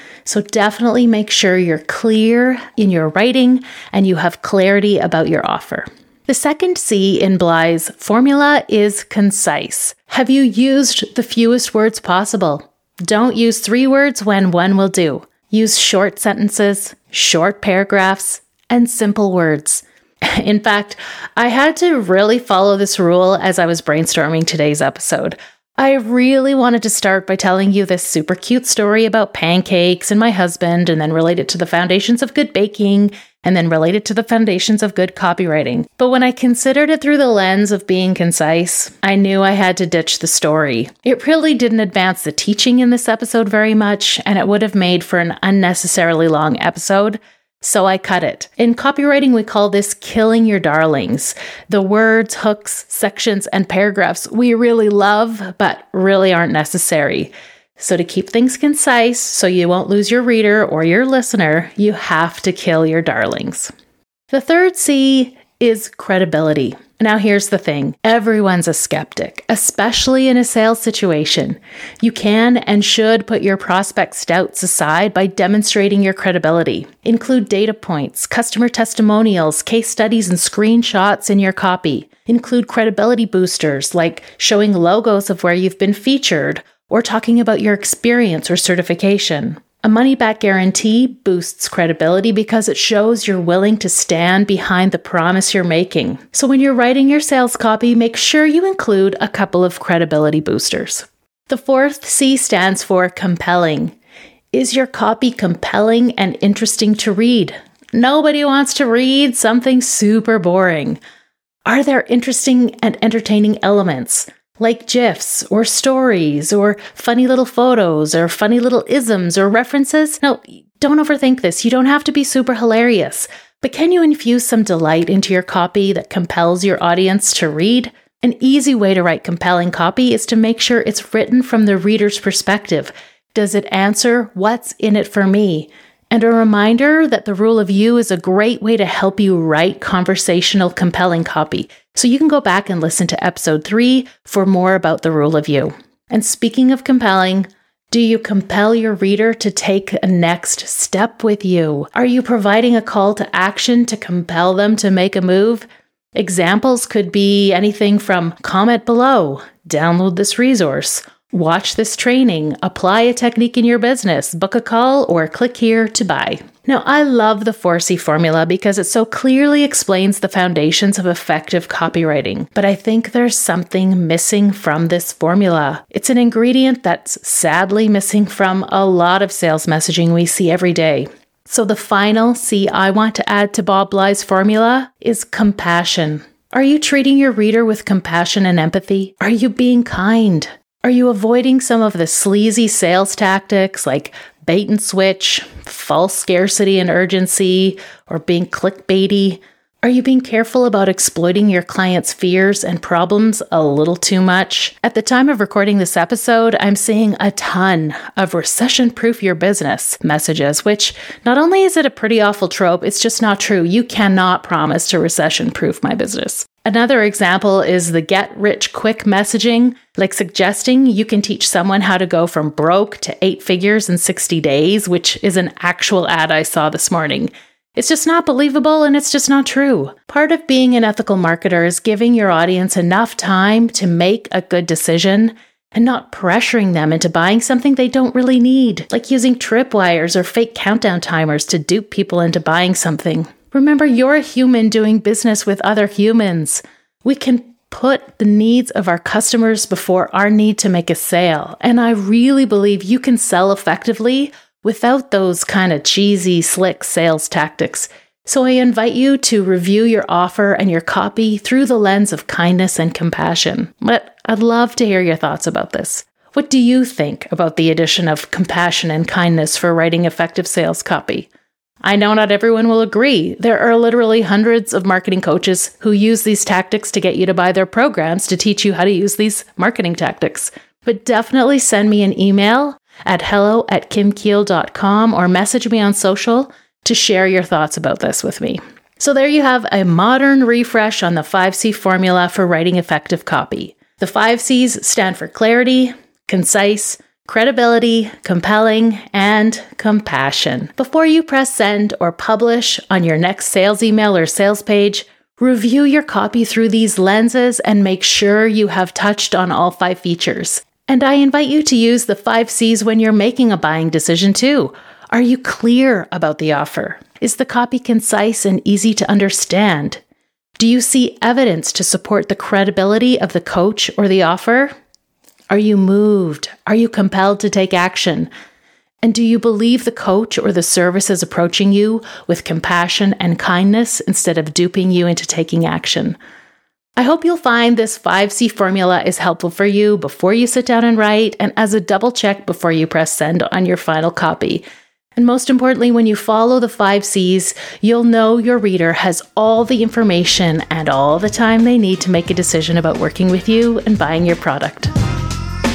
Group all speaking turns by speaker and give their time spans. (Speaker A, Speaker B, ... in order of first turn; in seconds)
Speaker A: 0.2-63.7, 64.3-103.9, 104.5-111.0, 111.6-271.3, 271.8-320.0, 320.6-324.7, 325.5-328.3, 329.0-336.2, 337.0-344.6, 345.1-354.9